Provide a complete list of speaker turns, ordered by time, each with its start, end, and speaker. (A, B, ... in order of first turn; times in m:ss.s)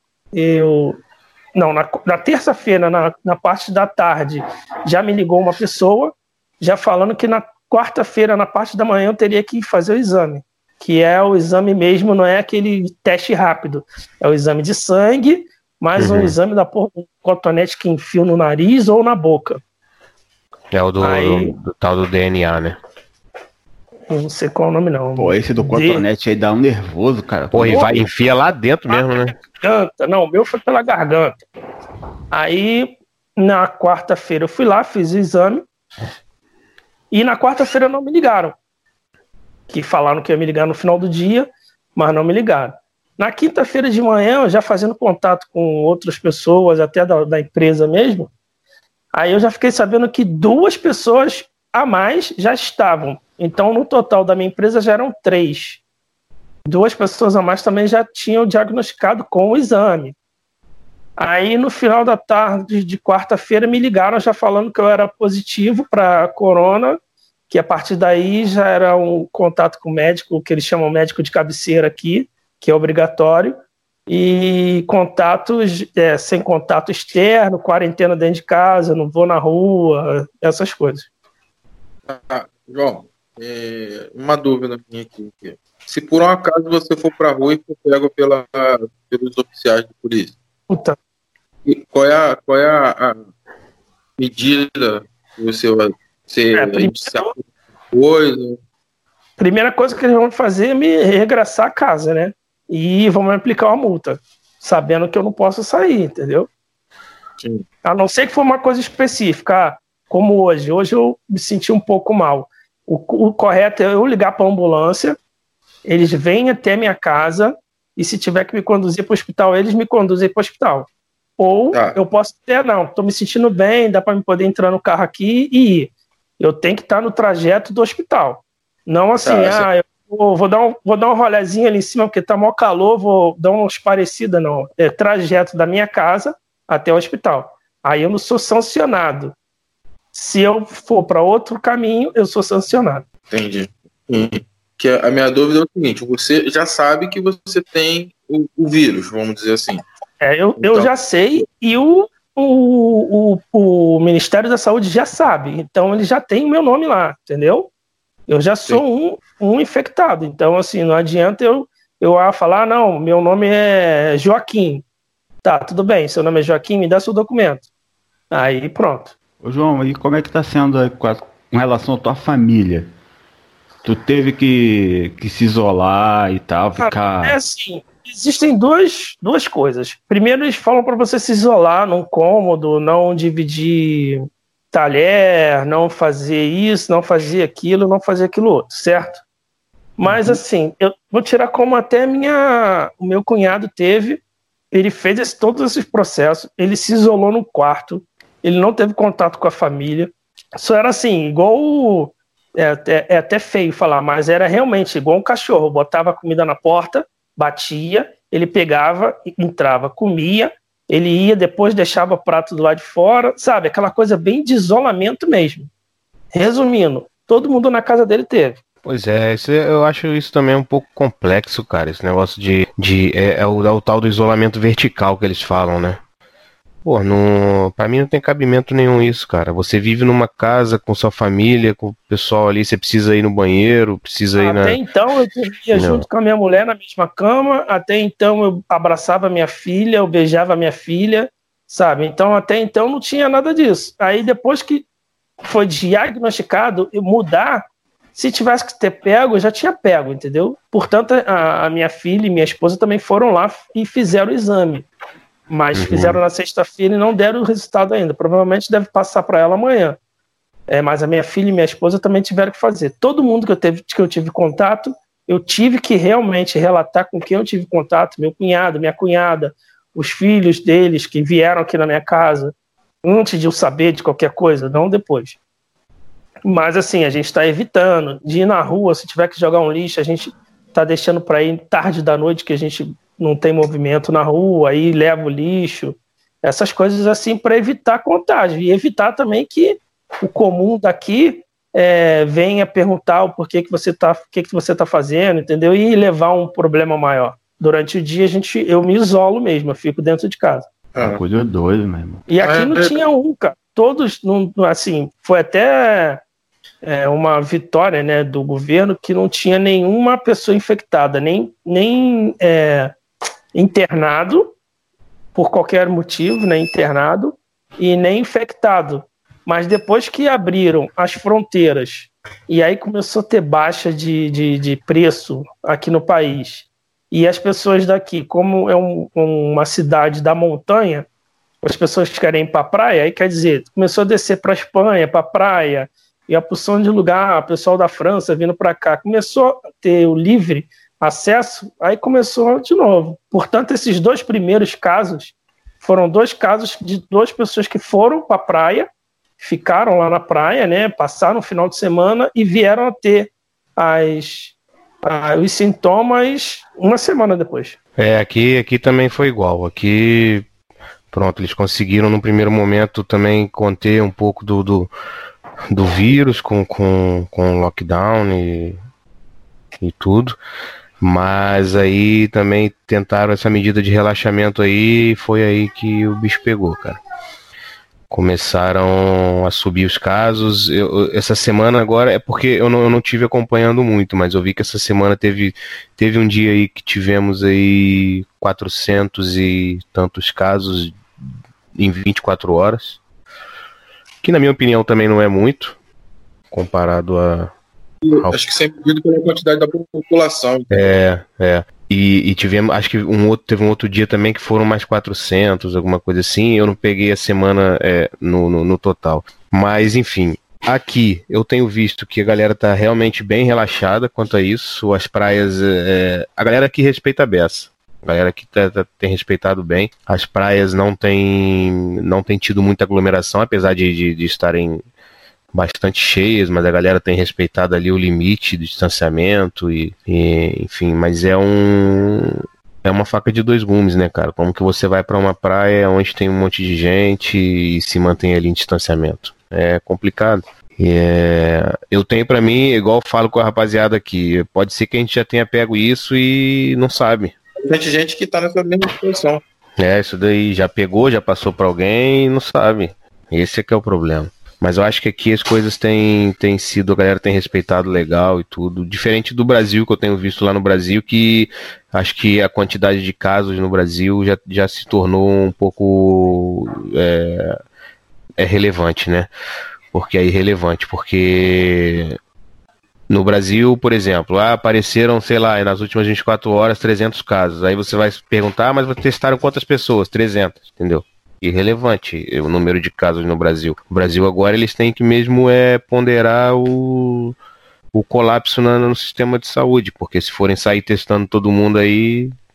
0:00.3-0:01.0 A
0:01.6-0:19.6 A
0:16.0-0:16.3 B
0:20.7-0:22.8 B
0:21.0-0:21.5 A
0:24.1-0:26.0 A
0:25.2-0:28.0 C
0:27.5-0:29.4 B
0:28.9-0:31.4 A
0:32.3-0:35.6 A
0:37.1-0:38.6 A
0:39.7-0:48.3 A
0:49.1-0:55.8 A
0:56.6-1:00.1 A
1:01.2-1:07.0 A
1:07.5-1:13.6 A
1:14.1-1:21.1 A
1:22.1-1:30.4 D
1:30.7-1:31.0 A
1:31.6-1:33.2 D
1:34.2-1:37.4 D
1:36.5-1:37.3 A
1:37.9-1:38.6 D
1:39.4-1:46.5 A
1:47.8-1:55.2 A
1:55.8-2:19.3 A
2:01.7-2:02.0 D
2:09.2-2:09.7 D
2:20.1-2:23.0 A
2:23.3-2:29.8 D
2:30.2-2:37.7 A
2:30.6-2:30.9 D
2:38.3-2:44.8 A
2:45.4-2:47.7 A
2:48.3-2:49.1 A
2:49.4-2:52.9 C
2:53.8-2:57.4 C
2:56.8-3:04.2 A
3:04.7-3:09.2 A
3:10.0-3:35.7 A
3:36.3-3:38.6 A
3:38.8-3:46.0 B
3:46.8-3:54.8 B
3:54.4-4:04.8 A
3:55.7-3:56.0 B
4:05.4-4:07.6 A
4:08.1-4:14.9 A
4:15.5-4:20.0 A
4:15.7-4:16.2 B
4:20.7-4:35.4 A
4:36.4-5:00.7 A
5:01.0-5:01.2 D
5:01.0-5:02.3 C
5:02.3-5:06.2 A
5:02.4-5:03.0 D
5:06.8-5:12.9 A
5:13.5-5:14.5 A
5:15.3-5:31.1 A
5:31.6-5:57.8 A
5:58.0-6:00.4 B
6:01.1-6:04.9 B
6:05.7-6:08.8 B
6:09.8-6:10.4 B
6:11.0-6:17.0 B
6:18.1-6:31.0 B
6:31.7-6:33.0 B
6:34.2-6:35.8 B
6:36.5-6:37.5 B
6:38.0-6:40.7 D
6:40.7-7:04.8 B
7:05.5-7:27.3 B
7:27.6-7:29.4 D
7:29.8-7:47.6 B
7:48.4-7:49.3 B
7:49.9-7:52.2 B
7:53.1-8:07.3 B
8:07.9-8:12.3 B